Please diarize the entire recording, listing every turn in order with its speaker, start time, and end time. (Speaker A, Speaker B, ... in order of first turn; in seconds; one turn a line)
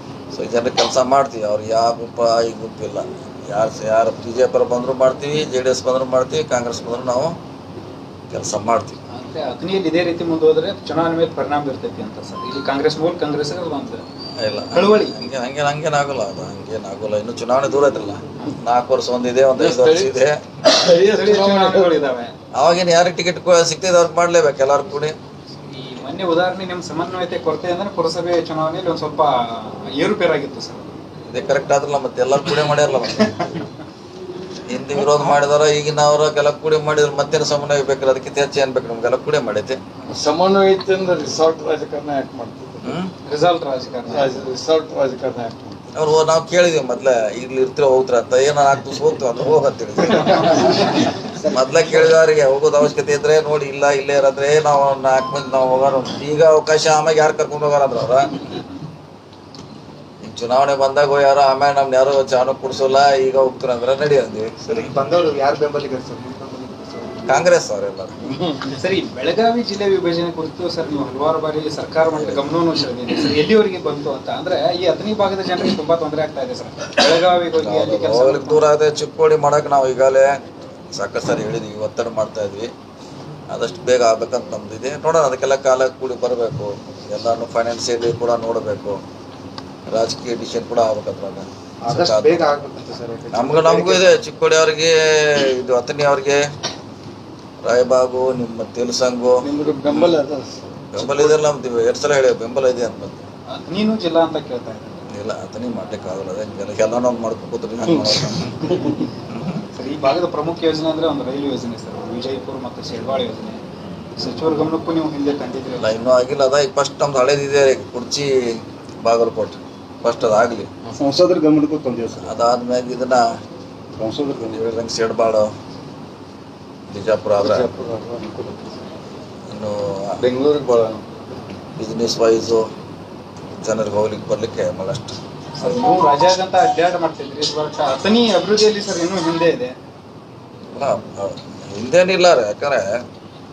Speaker A: 0.3-7.4
Speaker A: 8.3-9.0
Speaker B: 9.1-14.0
Speaker A: 14.4-20.4
Speaker B: 14.7-15.1
Speaker C: 19.5-20.1
Speaker C: 20.7-21.9
Speaker B: 21.1-22.3
Speaker A: 22.5-25.1
Speaker B: 25.6-30.9
Speaker A: 31.3-33.4
Speaker B: 32.4-33.6
Speaker A: 34.7-39.8
Speaker C: 40.1-43.0
Speaker A: 42.8-43.1
Speaker B: 43.2-44.5
Speaker C: 44.1-45.8
Speaker A: 46.0-50.8
Speaker B: 50.5-50.7
Speaker A: 51.5-58.3
Speaker A: 60.2-64.9
Speaker D: 64.6-67.3
Speaker A: 67.3-68.1
Speaker C: 68.2-68.7
Speaker B: 68.7-78.7
Speaker A: 72.1-72.5
Speaker A: 77.5-80.3
Speaker A: 80.9-82.7
Speaker A: 83.5-89.0
Speaker A: 89.9-92.4
Speaker D: 91.8-94.1
Speaker A: 93.3-96.4
Speaker A: 97.6-100.2
Speaker C: 99.4-101.4
Speaker A: 100.9-103.2
Speaker B: 103.5-105.0
Speaker A: 105.1-108.6
Speaker C: 107.8-109.1
Speaker A: 109.3-109.6
Speaker B: 109.7-113.6
Speaker B: 114.2-115.9
Speaker A: 115.8-118.3
Speaker A: 119.0-120.7
Speaker E: 121.0-122.3
Speaker A: 122.2-123.2
Speaker E: 124.0-124.7
Speaker A: 124.4-125.5
Speaker A: 126.9-127.7
Speaker C: 127.4-128.6
Speaker A: 129.5-130.1
Speaker C: 130.2-131.0
Speaker A: 131.8-132.6
Speaker A: 133.6-135.2
Speaker B: 135.6-139.7
Speaker A: 140.7-142.9